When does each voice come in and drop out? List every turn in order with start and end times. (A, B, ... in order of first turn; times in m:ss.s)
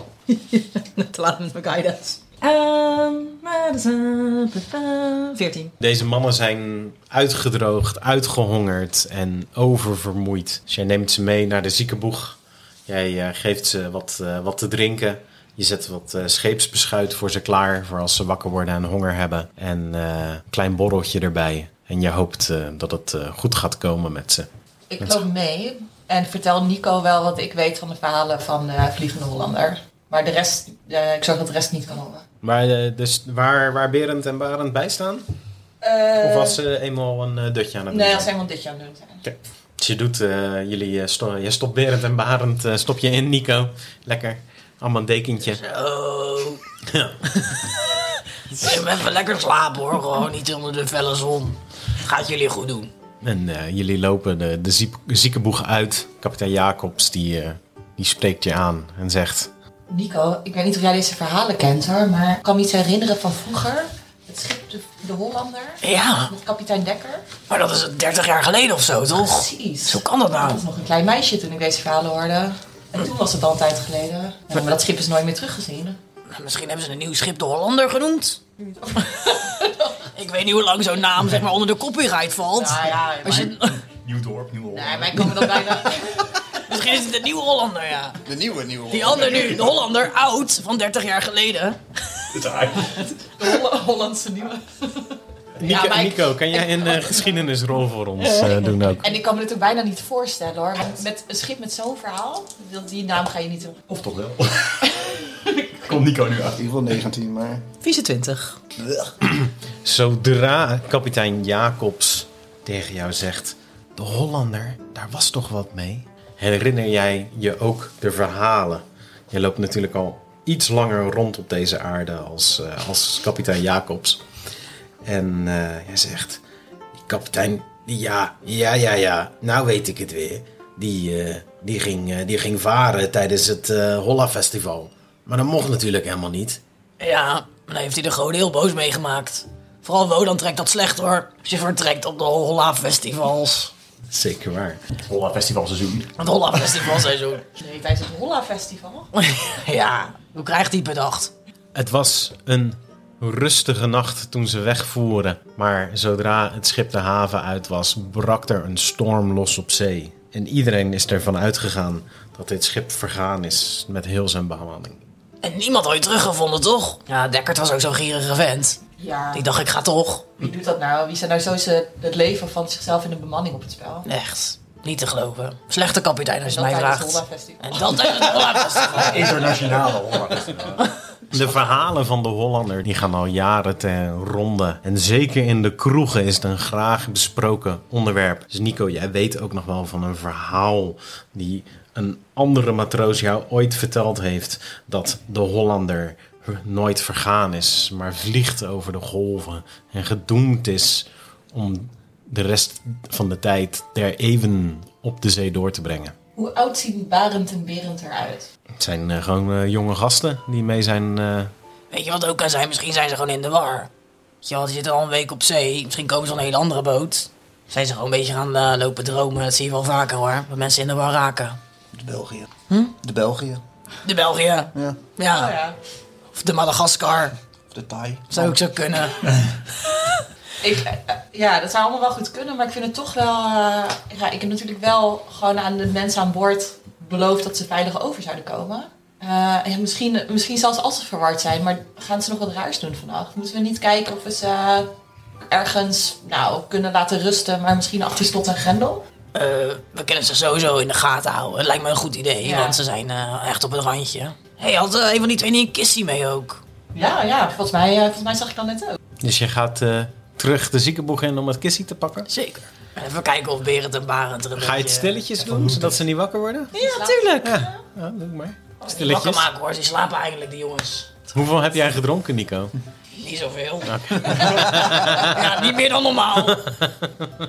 0:00.3-0:05.7 A
0:05.8-0:24.5 B
0:24.9-0:32.2 C
0:32.4-0:35.2 B
0:35.8-0:36.6 C
0:36.2-0:38.3 B
0:37.9-0:39.2 C
0:39.2-0:45.6 B
0:45.4-0:46.6 D
0:46.9-0:47.2 B
0:47.4-0:52.9 D
0:53.2-0:59.5 B
0:59.9-1:07.3 C
1:05.8-1:06.3 D
1:07.5-1:10.6 D
1:09.1-1:16.0 C
1:16.3-1:18.4 D
1:18.8-1:20.0 C
1:19.0-1:19.5 D
1:20.2-1:23.8 D
1:22.5-1:23.6 C
1:23.3-1:25.5 E
1:24.7-1:26.4 C
1:26.6-1:28.2 D
1:28.3-1:29.8 F
1:28.9-1:32.4 D
1:32.3-1:33.1 E
1:33.3-1:37.4 C
1:35.6-1:39.1 B
1:39.0-1:43.9 C
1:43.9-1:45.2 E
1:45.1-1:45.7 C
1:45.8-1:46.6 E
1:46.5-1:47.7 F
1:47.8-1:48.6 A
1:48.8-1:49.1 F
1:49.2-2:04.2 B
2:05.0-2:06.4 B
2:07.0-2:16.6 B
2:17.0-2:23.7 D
2:24.1-2:24.8 B
2:25.0-2:27.1 E
2:26.2-2:27.5 D
2:27.5-2:29.1 C
2:29.2-2:31.3 D
2:31.8-2:45.0 B
2:45.4-2:50.4 D
2:49.0-2:49.5 C
2:50.4-2:54.0 C
2:54.0-2:59.2 D
2:56.4-2:59.4 C
2:58.9-3:00.8 E
3:01.3-3:26.2 B
3:26.4-3:28.5 C
3:28.8-3:31.5 B
3:31.9-3:33.9 D
3:34.4-3:41.6 D
3:41.9-3:43.6 F
3:44.0-3:45.6 D
3:45.3-3:45.8 C
3:46.3-3:47.4 D
3:47.7-3:48.6 F
3:48.3-3:49.2 D
3:49.9-3:50.2 D
3:50.6-4:04.9 C
4:05.4-4:09.0 C
4:09.3-4:16.6 D
4:12.4-4:12.8 C
4:16.9-4:19.0 C
4:19.2-4:22.3 B
4:22.3-4:25.2 D
4:24.6-4:26.8 B
4:25.4-4:26.0 E
4:26.7-4:27.8 C
4:26.8-4:27.5 D
4:27.1-4:27.5 A
4:27.4-4:29.5 B
4:28.9-4:31.1 D
4:31.3-4:32.7 B
4:33.2-4:36.8 D
4:34.0-4:35.3 B
4:36.6-4:37.3 B